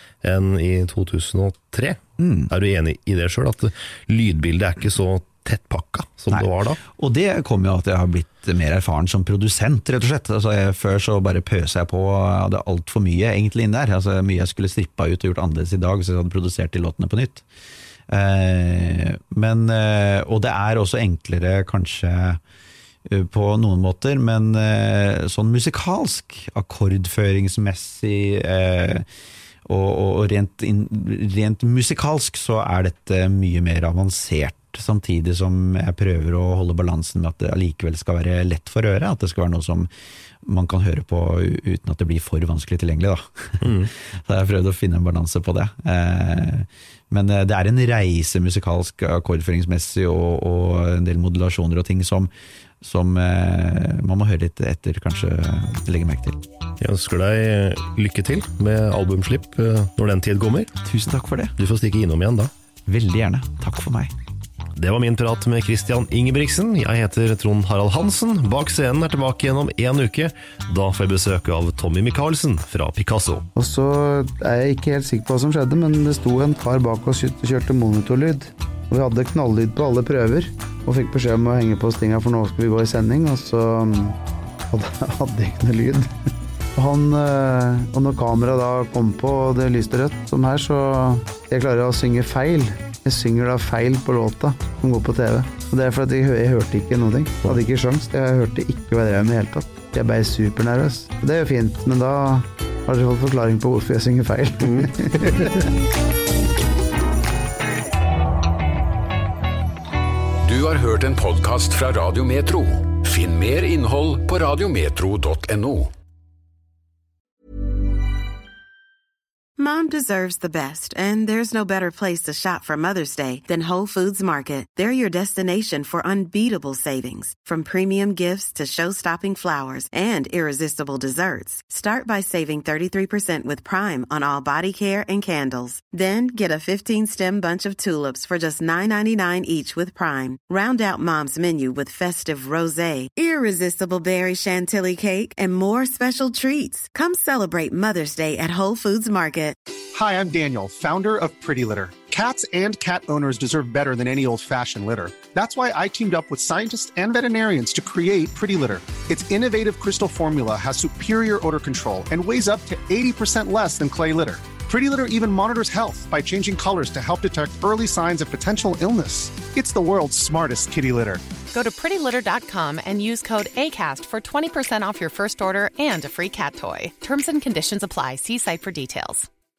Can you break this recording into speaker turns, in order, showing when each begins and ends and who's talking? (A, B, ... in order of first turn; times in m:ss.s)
0:00.2-0:02.0 A
0:02.2-0:02.5 B
0:02.5-0:06.8 A
0:06.3-0:17.4 B
0:18.1-0:22.4 B
0:23.1-0:29.0 B
0:29.7-0:39.9 B
0:40.4-0:52.3 B
0:43.6-0:43.9 A
0:52.8-0:56.4 B
0:56.8-1:00.7 A
1:00.8-1:01.5 B
1:01.6-1:02.5 A
1:02.9-1:04.1 B
1:04.8-1:13.4 A
1:13.6-1:24.2 C
1:24.7-1:26.1 C
1:26.8-1:45.5 C
1:50.4-1:55.9 D
1:59.6-2:29.6 E
2:29.9-2:51.2 F
2:51.5-2:59.3 G